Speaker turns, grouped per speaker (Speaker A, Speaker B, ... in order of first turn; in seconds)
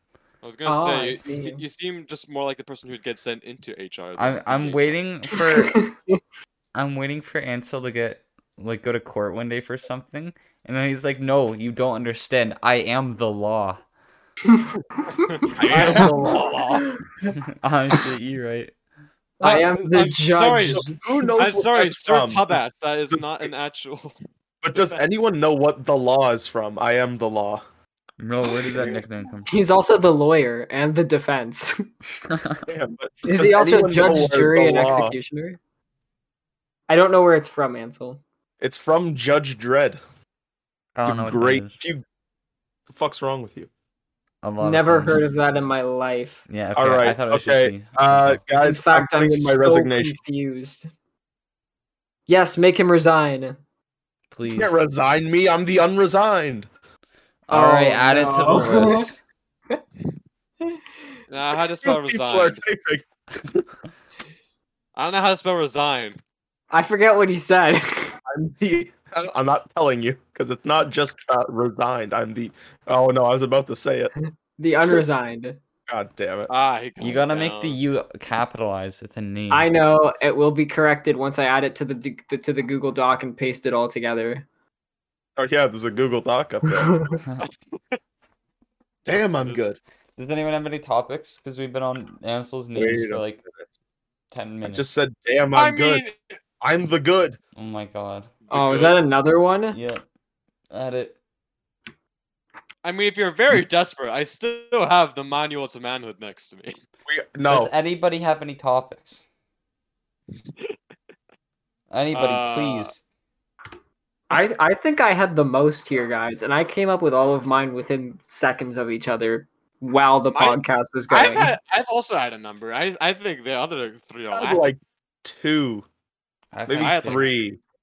Speaker A: 0.4-5.0, 15.2-16.9, 19.4-20.9, 21.4-24.2, 24.7-25.0, 61.3-62.6, 65.0-66.2, 76.5-77.8, 87.4-87.9, 89.3-89.6, 95.5-96.2, 98.5-98.9, 102.8-106.8, 112.1-112.9, 120.3-124.7, 126.8-127.3
Speaker B: 0.7-1.6, 5.3-6.2, 14.5-15.3, 15.9-17.0, 19.4-21.1, 29.5-31.8, 33.2-35.6, 36.9-38.2, 44.6-46.4, 48.5-50.9, 52.3-53.6, 57.5-59.1, 66.7-68.1, 74.5-75.6, 79.5-84.4, 86.7-87.2, 98.5-99.8, 114.3-121.6
Speaker C: 4.2-5.8, 6.7-13.8, 17.5-18.7, 28.2-29.5, 32.3-32.6, 41.0-41.7, 44.4-45.2, 46.5-48.4, 54.3-54.7, 57.5-59.1, 77.0-79.7, 90.2-93.4, 94.3-94.8, 97.5-98.3, 99.7-100.0, 100.7-101.2, 107.5-109.2, 111.9-113.0, 126.5-127.3
Speaker D: 15.6-16.4, 20.6-23.5, 24.6-27.6, 28.6-29.0, 32.6-35.2, 38.6-40.0, 41.0-42.0, 42.9-43.7, 46.7-50.1, 54.5-56.7, 61.8-63.7, 68.3-74.1, 75.9-76.5, 85.4-87.0, 89.0-89.8, 92.7-93.7, 94.6-96.0, 96.6-97.4, 107.1-107.7, 124.3-125.8, 126.7-127.6